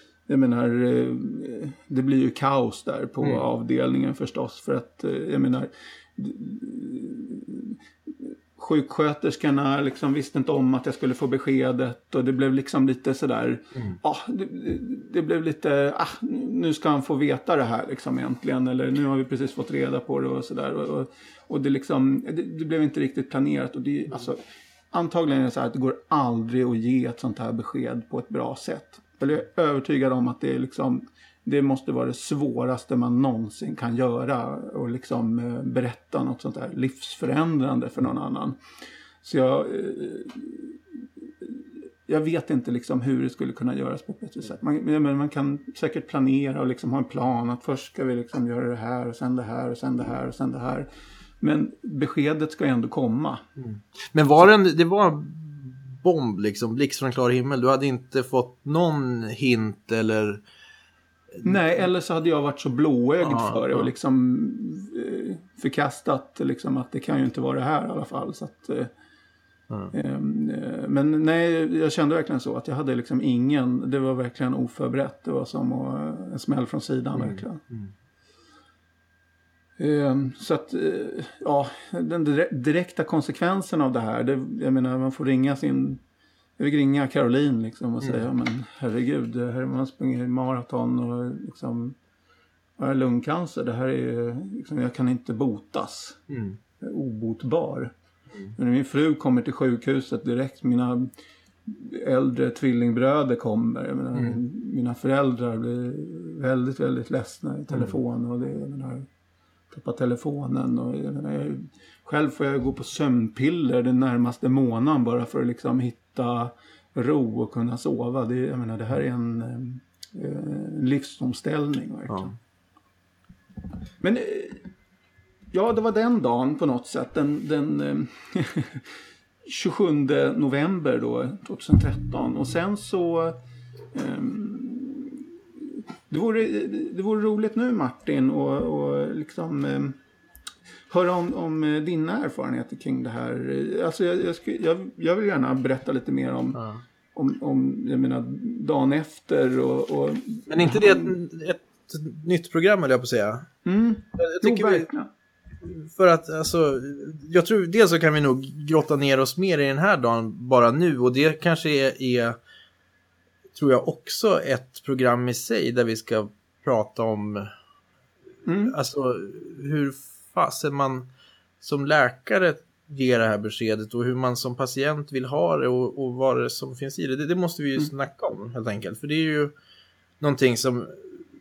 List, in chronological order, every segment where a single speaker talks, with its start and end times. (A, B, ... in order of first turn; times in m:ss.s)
0:00.3-0:24.4 A
0:24.9-0:38.6 A
0:39.2-0:40.8 A
0:41.4-0:50.9 A
0:51.4-0:53.4 A
0:53.6-1:00.4 B
1:01.4-1:08.9 A
1:03.2-1:03.9 B
1:09.9-1:17.6 A
1:17.2-1:17.9 B
1:19.8-1:26.0 A
1:26.6-1:32.0 A
1:32.8-1:36.2 A
1:36.3-1:36.6 B
1:36.8-1:37.9 A
1:38.5-1:41.1 A
1:41.7-1:49.1 A
1:49.7-2:02.4 A
2:04.0-2:04.7 A
2:05.5-2:08.9 A
2:09.4-2:13.4 A
2:13.9-2:15.2 A
2:16.1-2:20.0 A
2:20.9-2:26.6 A
2:27.2-2:31.2 A
2:30.5-2:33.5 B
2:33.6-2:35.1 A
2:34.2-2:34.9 B
2:35.6-2:42.4 B
2:43.5-2:47.5 B
2:48.4-2:48.8 A
2:48.7-2:51.1 B
2:51.6-2:59.5 B
3:00.2-3:01.2 B